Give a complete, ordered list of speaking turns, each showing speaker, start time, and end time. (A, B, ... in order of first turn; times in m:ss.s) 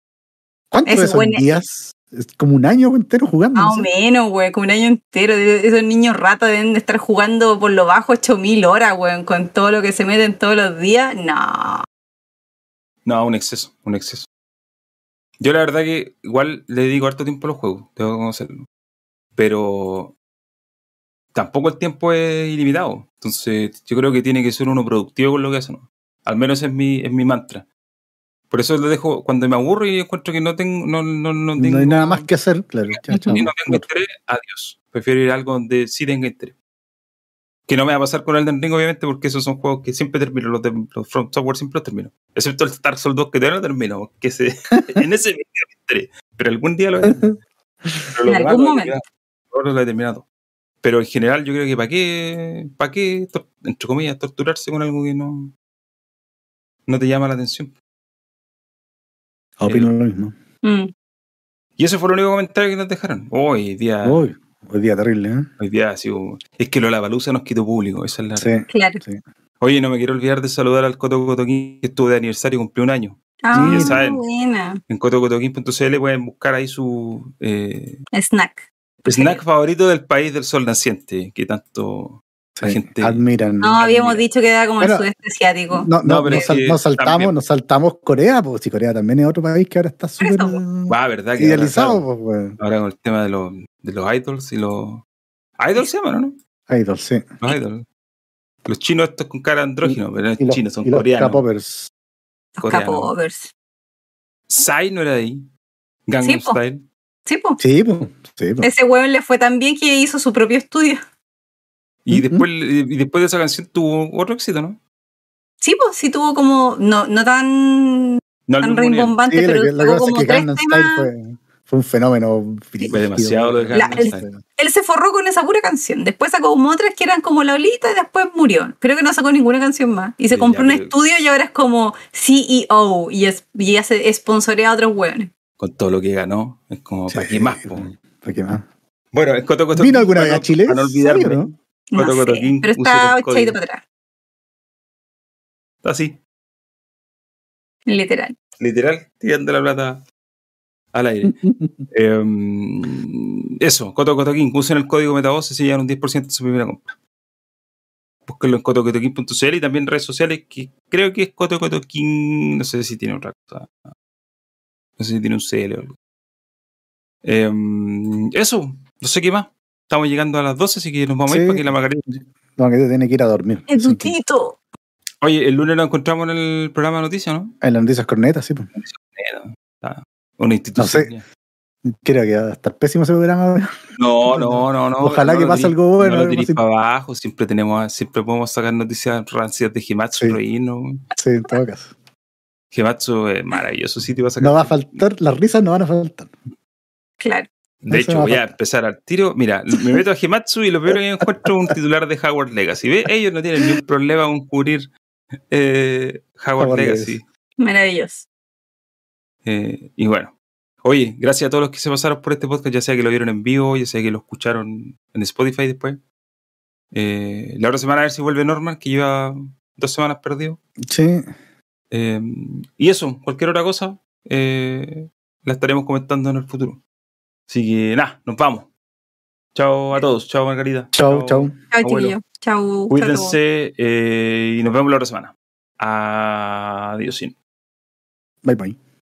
0:00.7-0:03.9 A
0:00.8-0:01.6 B
0:03.6-0:11.8 B
0:13.0-0:14.3 C
0:15.4-0:18.6 C
0:19.4-0:20.1 C
0:21.3-0:27.7 C
0:28.5-0:32.3 C
0:31.6-0:33.8 A
0:32.9-0:36.6 C
0:33.1-0:33.4 B
0:37.7-0:47.3 C
0:47.1-0:47.3 A
0:48.1-0:50.2 C
0:48.3-0:48.9 B
0:50.8-0:55.5 C
0:56.9-0:57.7 C
0:59.6-1:00.4 A
0:59.6-0:59.9 C
1:00.6-1:00.9 B
1:01.8-1:04.2 C
1:04.0-1:05.5 A
1:05.6-1:08.5 C
1:08.4-1:09.2 A
1:08.7-1:09.0 B
1:09.6-1:14.2 C
1:13.4-1:14.8 B
1:13.5-1:14.0 A
1:14.9-1:18.0 C
1:18.1-1:19.4 B
1:19.1-1:23.2 C
1:22.6-1:23.8 A
1:23.6-1:26.5 B
1:23.8-1:24.2 C
1:24.8-1:25.0 A
1:25.7-1:32.6 A
1:26.0-1:27.4 C
1:30.2-1:30.6 B
1:30.9-1:32.0 C
1:32.6-1:35.0 C
1:35.6-1:36.4 C
1:36.7-1:37.3 A
1:37.4-1:37.8 C
1:38.6-1:41.4 C
1:39.8-1:41.9 A
1:42.6-1:43.5 B
1:42.6-1:43.1 C
1:44.5-1:45.5 C
1:46.1-1:46.8 C
1:46.2-1:46.6 B
1:47.3-1:47.6 B
1:47.6-1:48.7 A
1:48.6-1:51.0 B
1:52.0-1:54.8 C
1:52.1-1:52.4 A
1:55.6-2:01.1 B
1:58.5-1:59.1 C
1:59.3-2:04.4 A
2:02.8-2:04.3 C
2:03.7-2:15.3 B
2:10.3-2:10.9 C
2:15.6-2:17.9 C
2:17.1-2:18.6 A
2:19.1-2:23.6 C
2:19.8-2:21.5 A
2:21.9-2:23.8 B
2:25.8-2:26.2 C
2:27.9-2:28.4 B
2:28.6-2:30.0 C
2:30.9-2:31.4 C
2:31.3-2:31.9 A
2:31.9-2:37.0 C
2:38.3-2:43.8 C
2:45.0-2:45.9 C
2:47.2-2:52.1 C
2:51.3-2:54.1 A
2:53.7-2:54.6 B
2:55.2-2:57.5 C
2:57.6-2:58.7 A
2:58.7-3:01.2 C
3:00.8-3:01.1 A
3:01.8-3:03.7 A
3:04.0-3:11.0 C
3:04.3-3:06.6 A
3:11.2-3:11.9 A
3:12.7-3:15.0 C
3:14.4-3:16.4 A
3:17.2-3:17.5 B
3:17.8-3:24.9 C
3:17.9-3:18.6 A
3:25.5-3:27.2 C
3:26.6-3:27.2 A
3:27.6-3:28.3 B
3:29.4-3:36.0 C
3:36.9-3:40.6 C
3:40.8-3:41.3 A
3:41.9-3:46.8 C
3:47.5-3:48.7 C
3:49.6-3:52.1 C
3:50.9-3:51.5 A
3:51.7-3:53.4 B
3:52.9-3:57.4 C
3:58.4-3:58.8 A